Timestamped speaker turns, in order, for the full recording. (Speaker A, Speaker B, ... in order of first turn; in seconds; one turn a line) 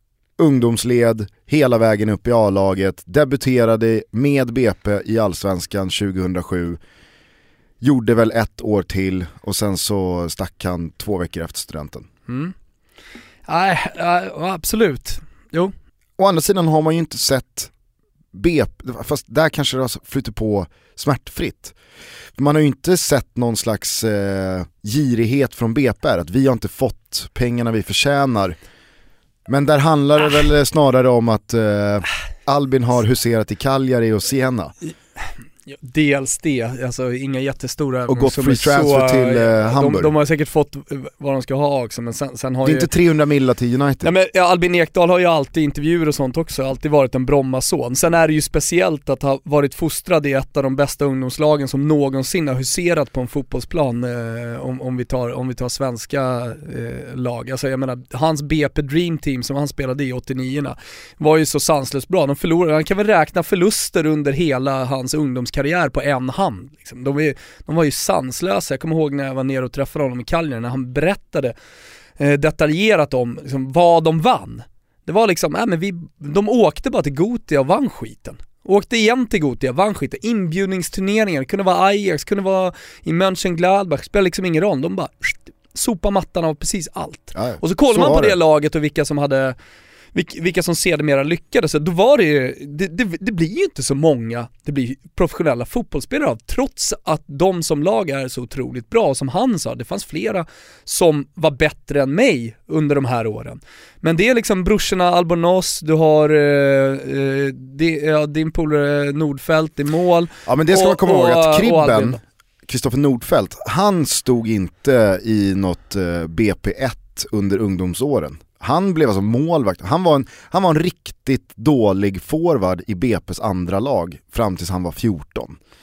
Speaker A: 0.4-6.8
Speaker A: 7.8-12.1
Speaker B: 12.3-12.5
Speaker B: 13.5-15.7
Speaker A: 16.2-17.7
Speaker A: 18.3-21.8
Speaker A: 22.4-28.6
Speaker A: 29.5-34.7
Speaker B: 35.2-42.9
Speaker A: 38.1-40.1
Speaker A: 42.6-44.1
Speaker B: 44.0-71.5
Speaker B: 72.2-89.6
Speaker A: 87.3-88.4
Speaker B: 90.1-112.2
Speaker A: 110.5-125.6